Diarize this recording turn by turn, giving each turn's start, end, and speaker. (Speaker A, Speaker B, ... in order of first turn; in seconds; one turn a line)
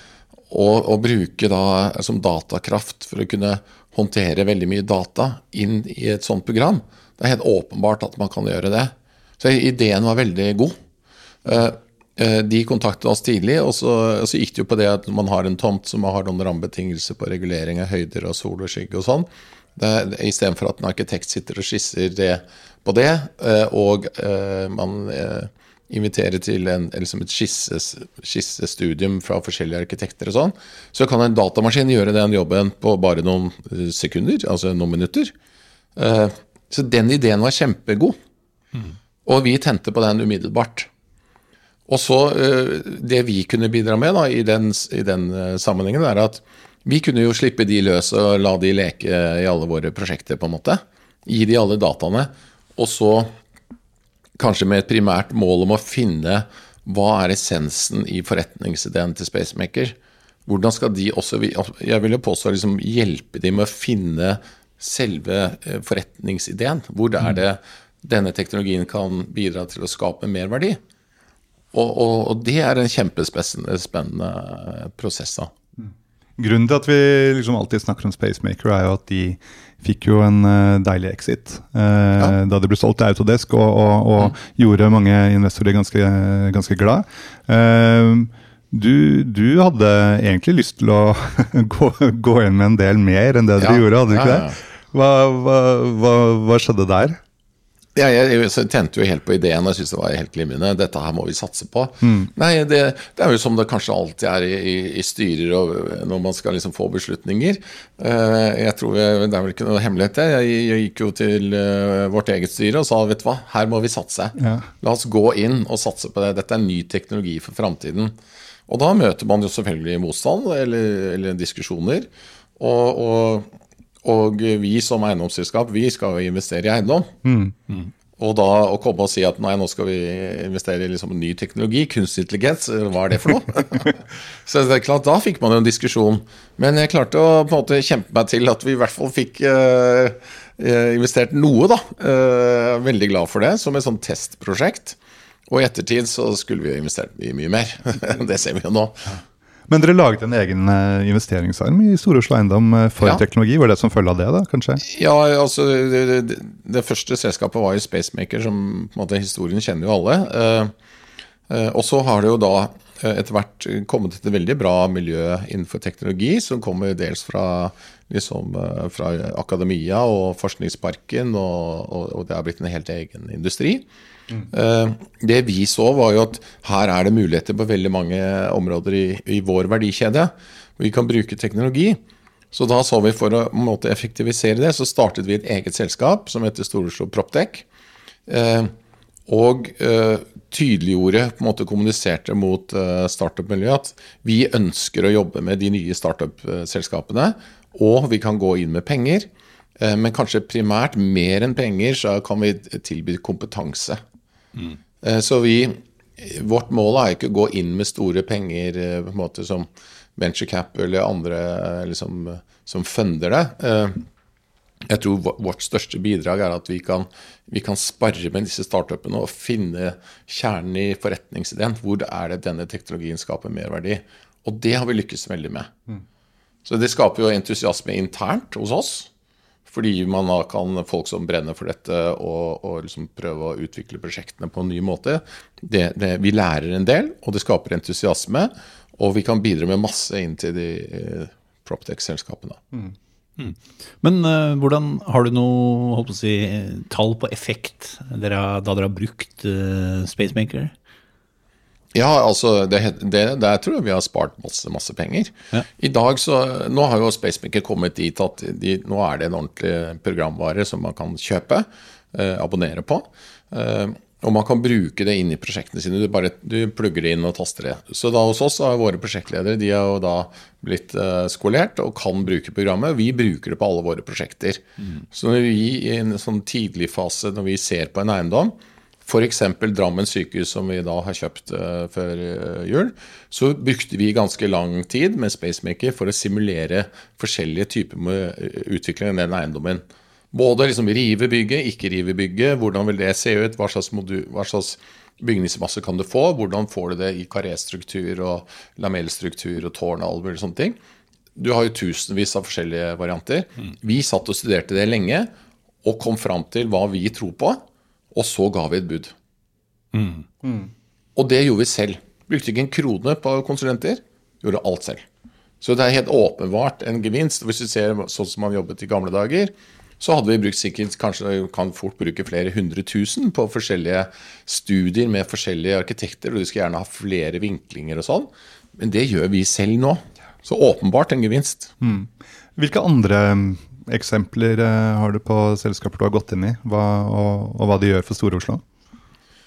Speaker A: 0.5-10.8
Speaker A: 11.4-35.3
Speaker A: 36.0-38.2
Speaker A: 39.3-40.9
Speaker A: 41.9-53.3
Speaker A: 54.4-60.0
Speaker A: 60.5-70.8
Speaker A: 71.7-75.5
Speaker B: 75.8-97.2
Speaker A: 93.6-94.6
Speaker A: 98.0-118.2
Speaker B: 102.0-102.3
Speaker B: 114.4-114.7
Speaker A: 118.7-123.5
Speaker A: 124.0-127.2
Speaker B: 127.2-127.5
Speaker A: 128.2-145.0
Speaker A: 145.5-149.2
Speaker B: 149.7-154.8
Speaker A: 154.8-160.7
Speaker A: 161.5-173.8
Speaker A: 174.5-182.0
Speaker A: 182.5-187.7
Speaker A: 188.3-188.7
Speaker A: 189.3-199.3
Speaker A: 199.8-204.0
Speaker A: 205.0-214.1
Speaker A: 214.9-225.7
Speaker A: 226.7-229.1
Speaker A: 229.7-242.6
Speaker C: 243.4-250.7
Speaker A: 251.9-278.5
Speaker A: 279.1-300.8
Speaker A: 301.4-305.3
Speaker A: 305.8-307.6
Speaker A: 308.1-309.1
Speaker C: 309.9-310.2
Speaker A: 311.2-315.1
Speaker A: 315.6-331.7
Speaker B: 331.8-338.6